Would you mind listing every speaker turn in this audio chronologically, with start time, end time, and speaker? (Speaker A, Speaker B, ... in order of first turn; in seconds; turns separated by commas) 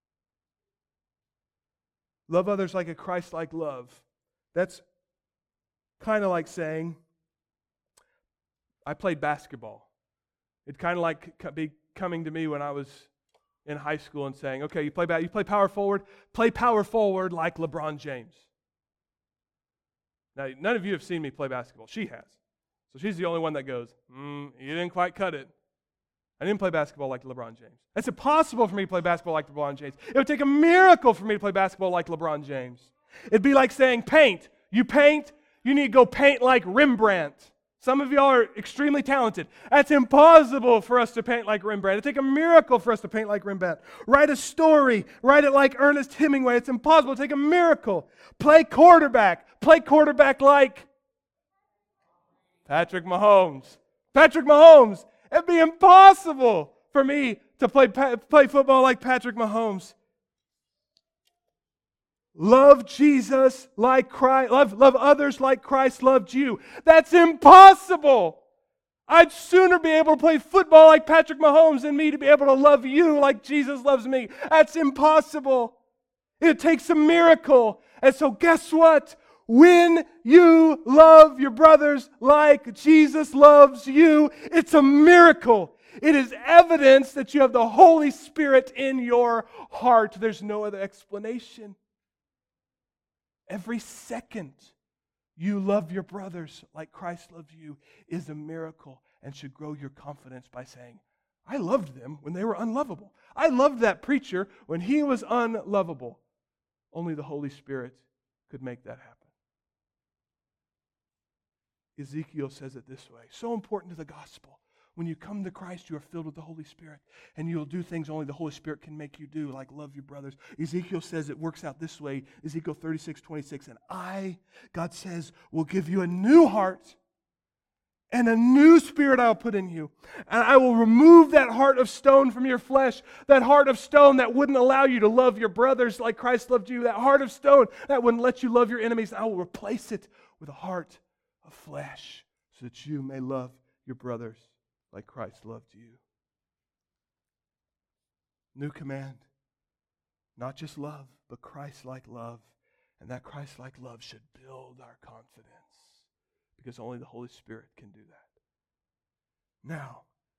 Speaker A: 2.3-4.8, Speaker A: 6.0-7.0, Speaker A: 8.8-9.9, Speaker A: 10.7-13.1, Speaker A: 13.7-18.4, Speaker A: 20.3-22.4, Speaker A: 22.9-25.5, Speaker A: 26.4-50.9, Speaker A: 52.6-60.0, Speaker A: 62.3-68.4, Speaker A: 69.1-75.8, Speaker A: 76.4-91.8, Speaker A: 93.5-94.7, Speaker A: 95.3-106.2, Speaker A: 106.9-109.3, Speaker A: 112.0-127.0, Speaker A: 128.1-146.0, Speaker A: 148.5-149.3, Speaker A: 150.4-156.1, Speaker A: 156.6-158.3, Speaker A: 159.6-160.1